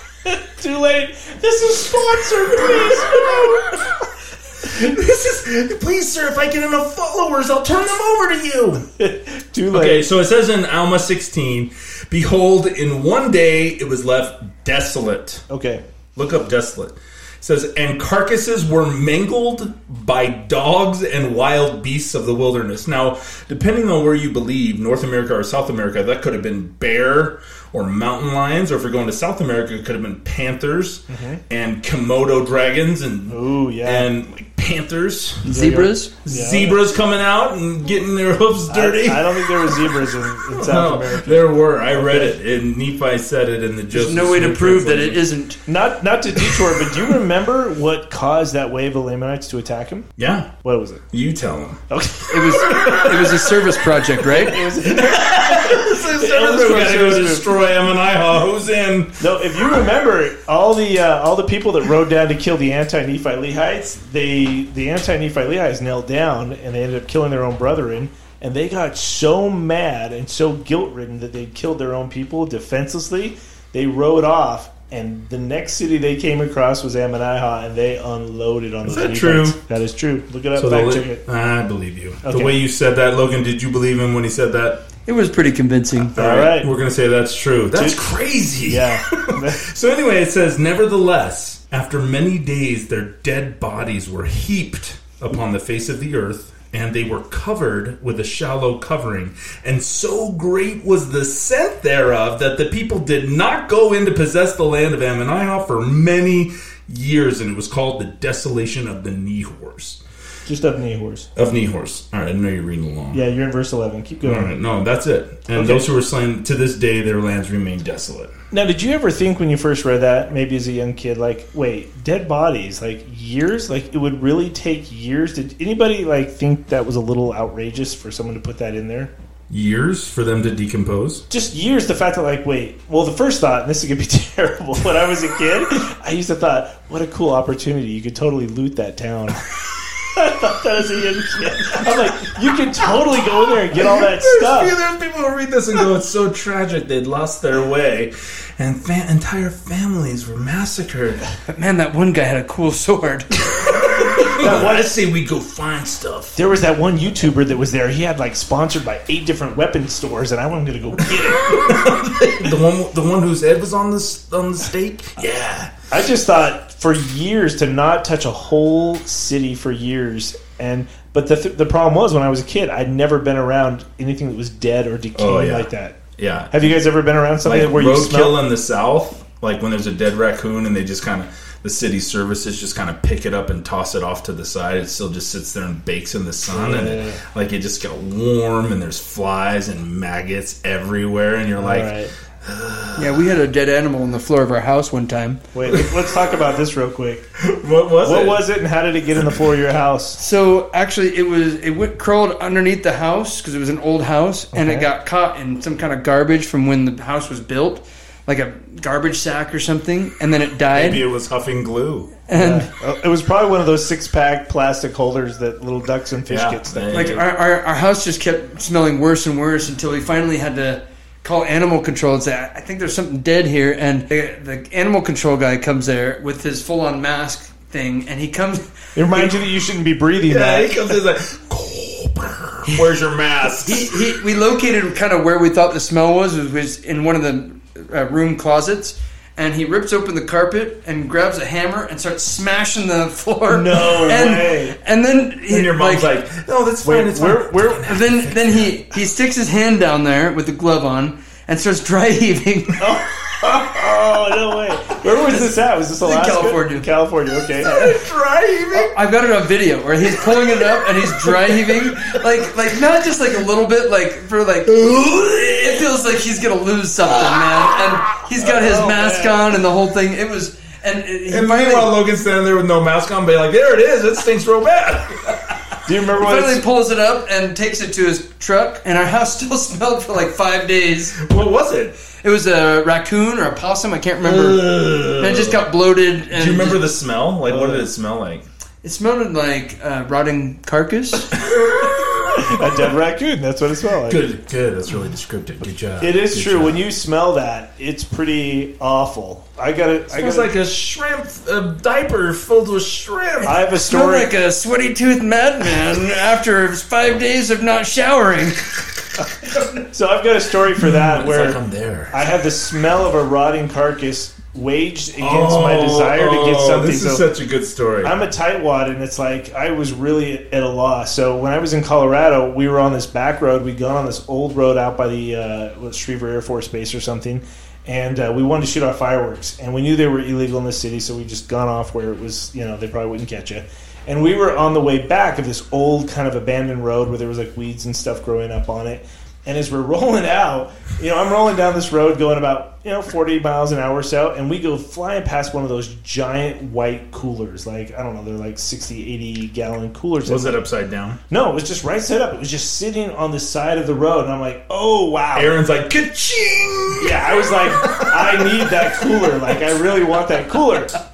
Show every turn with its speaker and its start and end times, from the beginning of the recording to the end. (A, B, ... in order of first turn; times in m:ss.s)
0:00.2-0:04.0 A
0:03.0-0:03.6 B
0:04.6-0:08.8 B
0:09.0-0:10.1 A
0:09.7-0:15.4 B
0:15.5-0:15.8 A
0:16.2-0:35.5 B
0:31.1-0:31.4 A
0:33.3-0:34.1 A
0:35.4-0:36.8 A
0:35.4-0:36.1 C
0:36.2-0:45.2 B
0:38.7-0:42.4 A
0:43.9-0:45.6 C
0:45.6-0:50.1 A
0:50.2-0:50.5 B
0:50.6-0:51.0 A
0:51.1-0:51.8 B
0:51.9-0:53.5 A
0:52.3-0:54.7 C
0:52.5-0:53.3 B
0:54.2-0:57.5 A
0:54.8-0:59.2 B
0:59.2-1:21.2 A
1:18.8-1:19.6 B
1:20.5-1:24.8 B
1:22.2-1:22.5 A
1:25.0-1:26.1 C
1:26.1-1:26.7 A
1:26.1-1:50.0 B
1:27.7-1:28.1 A
1:28.6-1:29.6 A
1:50.4-1:51.3 A
1:51.4-1:53.2 B
1:53.1-1:54.5 A
1:54.2-1:58.3 B
1:55.5-1:55.8 A
1:58.5-2:09.1 A
2:09.5-2:11.2 B
2:11.3-2:19.4 A
2:20.1-2:24.7 A
2:21.7-2:22.3 B
2:23.7-2:31.2 B
2:31.5-2:33.8 C
2:33.5-2:36.4 B
2:34.3-2:34.9 A
2:36.4-2:41.9 A
2:41.3-2:45.7 B
2:45.9-2:56.0 A
2:55.1-2:56.5 B
2:56.5-2:58.4 A
2:57.4-3:13.2 B
3:06.5-3:07.2 A
3:11.6-3:12.1 A
3:13.0-3:15.4 C
3:15.5-3:17.2 A
3:15.6-3:16.0 B
3:17.4-3:18.4 B
3:18.0-3:20.2 A
3:20.2-3:31.0 C
3:24.5-3:24.9 A
3:30.7-3:32.1 B
3:32.3-3:32.7 C
3:32.4-3:37.2 A
3:36.3-3:37.2 B
3:36.9-3:49.3 C
3:49.0-3:50.7 A
3:50.2-3:54.0 B
3:53.6-4:06.1 C
4:03.5-4:04.8 A
4:05.5-4:08.8 B
4:06.8-4:07.9 A
4:07.8-4:12.9 C
4:12.8-4:18.0 A
4:15.0-4:16.9 C
4:17.6-4:18.9 B
4:18.7-4:31.9 C
4:21.0-4:22.1 B
4:24.7-4:25.8 B
4:27.3-4:28.3 B
4:28.4-4:29.4 A
4:31.3-4:35.4 B
4:35.8-4:36.6 A
4:36.1-4:41.2 C
4:41.2-4:42.0 B
4:42.2-4:46.9 C
4:44.2-4:45.6 B
4:46.3-4:48.4 B
4:47.4-4:47.9 A
4:48.8-4:51.4 C
4:51.4-4:52.5 B
4:52.4-4:54.2 A
4:54.0-4:56.8 B
4:56.0-5:00.5 A
5:00.1-5:03.6 B
5:03.4-5:04.3 A
5:03.7-5:08.8 C
5:09.9-5:11.6 A
5:10.8-5:12.2 B
5:12.1-5:17.2 A
5:15.2-5:18.1 B
5:18.0-5:50.6 A
5:50.2-5:51.2 B
5:51.3-5:55.6 A
5:55.3-5:59.3 B
5:57.0-6:01.0 A